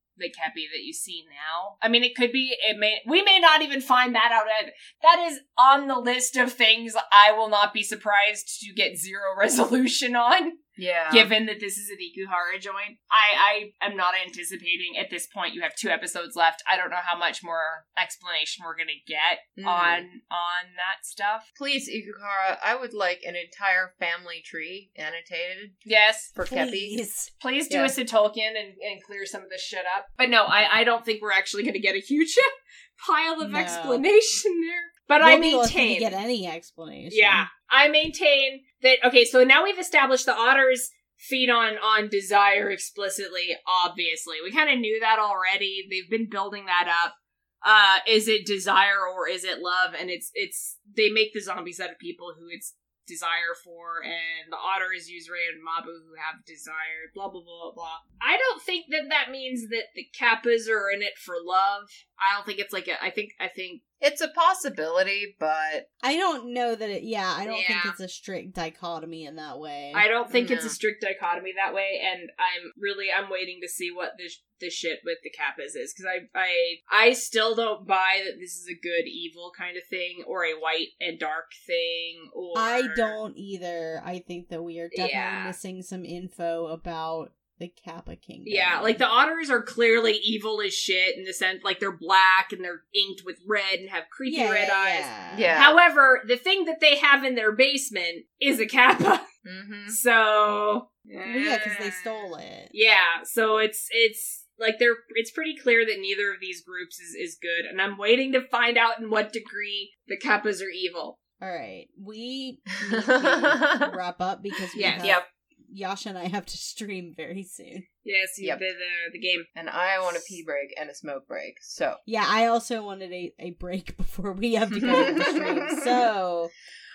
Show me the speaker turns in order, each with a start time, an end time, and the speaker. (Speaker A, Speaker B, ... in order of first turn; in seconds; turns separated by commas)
Speaker A: 0.2-21.4, Speaker B: 10.8-11.3, Speaker B: 19.6-20.1, Speaker B: 21.6-25.8, Speaker A: 25.8-26.3, Speaker B: 26.3-27.0, Speaker C: 26.4-27.3, Speaker A: 27.4-36.1, Speaker B: 27.7-27.9, Speaker C: 33.4-34.0, Speaker C: 35.2-37.5, Speaker A: 37.1-63.8, Speaker B: 64.0-65.8, Speaker C: 66.0-70.1, Speaker A: 67.5-68.0, Speaker A: 69.9-83.2, Speaker B: 70.3-70.8, Speaker C: 82.5-89.0, Speaker A: 84.9-85.5, Speaker A: 88.4-99.2, Speaker C: 94.2-95.5, Speaker B: 95.3-95.8, Speaker B: 99.4-100.0, Speaker A: 99.9-102.2, Speaker C: 101.2-102.7, Speaker A: 102.7-111.2, Speaker C: 111.4-117.8, Speaker B: 112.8-113.9, Speaker A: 114.7-115.2, Speaker A: 118.0-119.5, Speaker B: 119.5-122.0, Speaker C: 122.0-126.5, Speaker B: 124.8-126.1